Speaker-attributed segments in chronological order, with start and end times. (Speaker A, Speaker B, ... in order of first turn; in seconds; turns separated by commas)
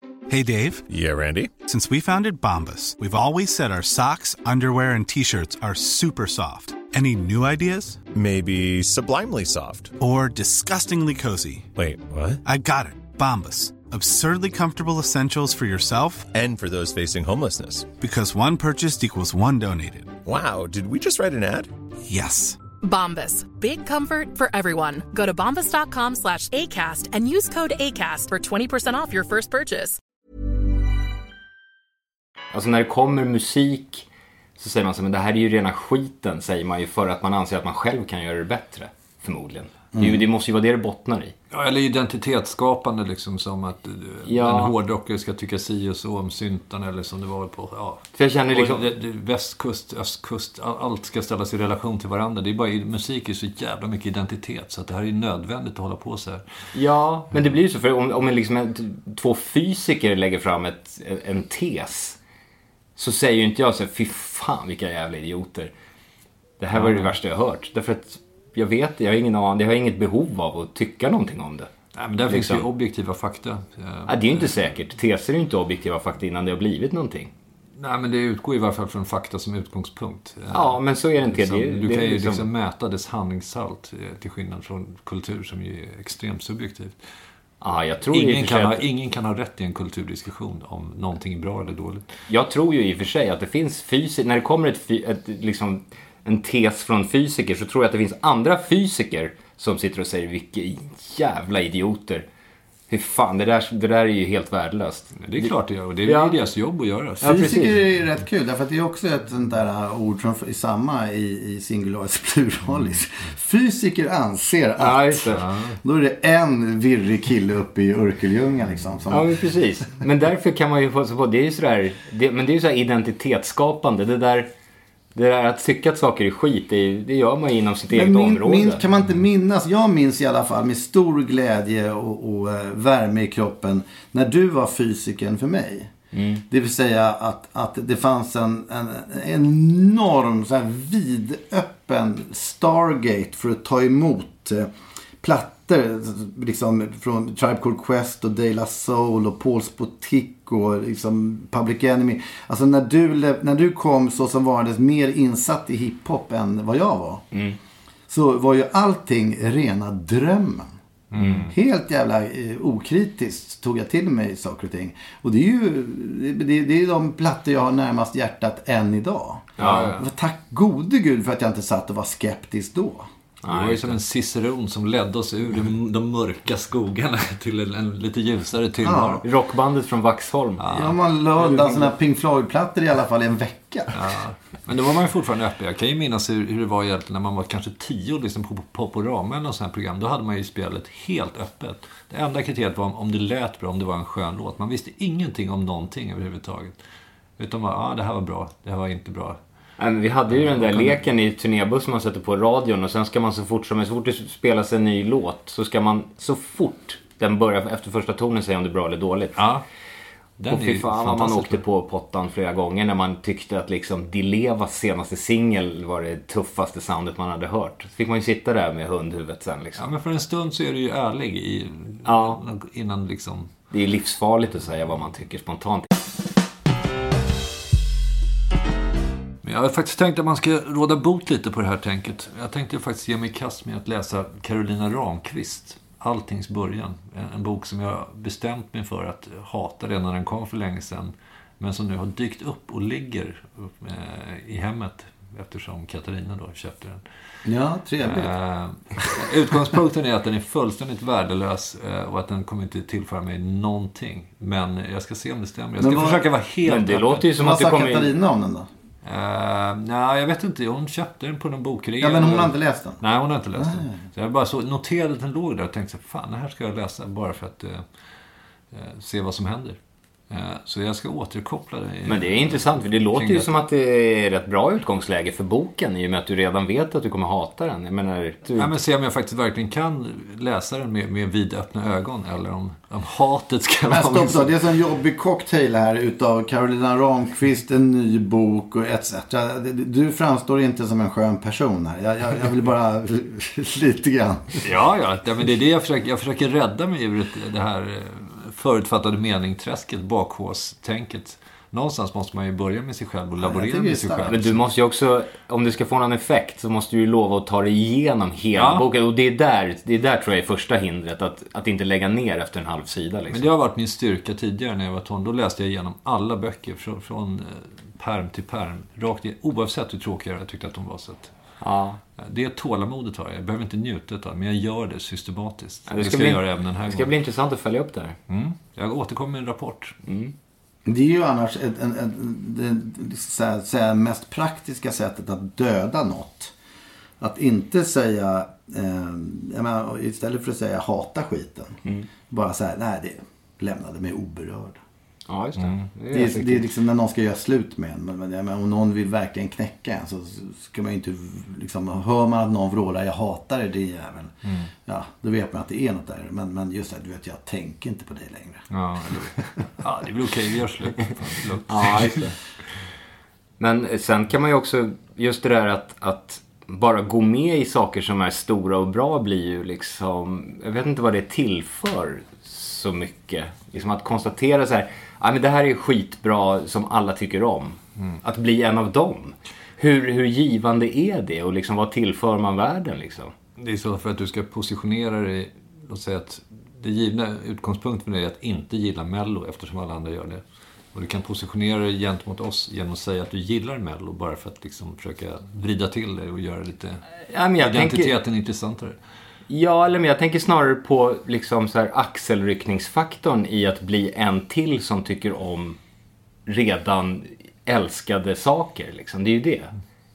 Speaker A: 0.3-0.8, Speaker B: 0.9-1.5, Speaker A: 1.6-8.0, Speaker B: 8.0-9.9, Speaker A: 10.0-11.7, Speaker B: 11.7-12.4, Speaker A: 12.4-16.3, Speaker B: 16.3-17.9, Speaker A: 18.0-20.1, Speaker B: 20.2-21.7, Speaker A: 22.1-22.6, Speaker C: 22.8-30.0, Speaker D: 32.5-34.0, Speaker D: 34.6-41.3, Speaker E: 39.9-40.2, Speaker F: 41.5-56.4, Speaker D: 44.3-44.7, Speaker D: 48.1-48.8, Speaker D: 56.7-62.2, Speaker D: 63.0-65.7, Speaker D: 66.6-71.7, Speaker F: 66.7-67.1, Speaker F: 71.9-74.5, Speaker D: 72.3-72.7, Speaker D: 74.1-77.3, Speaker F: 77.8-87.0, Speaker D: 80.5-82.5, Speaker D: 87.6-88.8, Speaker F: 88.1-92.1, Speaker D: 92.3-102.2, Speaker D: 102.9-105.5, Speaker F: 105.2-107.4, Speaker D: 106.0-106.3, Speaker D: 107.2-107.7, Speaker E: 107.2-115.3, Speaker D: 114.8-115.4, Speaker F: 115.3-115.8, Speaker E: 115.8-119.3, Speaker D: 119.1-124.5, Speaker D: 125.1-128.8, Speaker E: 127.9-135.9, Speaker D: 136.1-136.4, Speaker E: 136.5-144.7, Speaker E: 145.2-157.2, Speaker D: 157.3-157.6, Speaker E: 158.1-160.7, Speaker F: 161.1-161.5, Speaker D: 161.2-161.5, Speaker E: 161.5-173.1, Speaker D: 169.6-169.9, Speaker F: 169.6-170.1, Speaker D: 173.4-174.0, Speaker F: 173.4-179.2, Speaker E: 178.8-179.2, Speaker D: 179.2-180.6, Speaker F: 180.6-180.9, Speaker E: 180.7-184.0, Speaker F: 183.9-196.8, Speaker F: 197.4-199.4, Speaker D: 199.8-209.4, Speaker F: 200.3-201.0, Speaker F: 209.3-209.6, Speaker F: 210.4-211.6, Speaker D: 210.5-219.9, Speaker F: 219.8-223.5, Speaker D: 222.0-222.4, Speaker D: 223.7-225.9, Speaker F: 229.4-247.0, Speaker E: 247.4-248.3, Speaker F: 248.0-257.3, Speaker E: 255.8-256.2, Speaker D: 256.6-258.1, Speaker E: 257.4-258.7, Speaker F: 259.0-267.8, Speaker E: 262.0-263.0, Speaker E: 263.6-264.0, Speaker F: 268.7-269.8, Speaker F: 270.3-273.5, Speaker D: 272.1-278.7, Speaker F: 278.6-284.5, Speaker E: 283.9-294.6, Speaker F: 294.6-304.6, Speaker E: 303.4-304.4, Speaker D: 304.3-313.5, Speaker F: 308.6-308.9, Speaker F: 313.3-321.3, Speaker D: 321.6-322.0, Speaker F: 322.2-327.1, Speaker D: 325.9-328.2, Speaker F: 328.3-329.9, Speaker D: 330.1-330.3, Speaker E: 330.8-336.5, Speaker E: 337.2-341.8, Speaker E: 342.3-344.8, Speaker D: 345.3-346.7, Speaker F: 345.6-345.9, Speaker E: 346.1-358.6, Speaker F: 358.7-362.3, Speaker D: 361.7-362.4, Speaker D: 363.6-383.3, Speaker F: 383.6-390.4, Speaker F: 390.9-397.0, Speaker D: 397.3-398.1, Speaker F: 397.6-399.0, Speaker D: 399.5-405.8, Speaker D: 406.4-409.7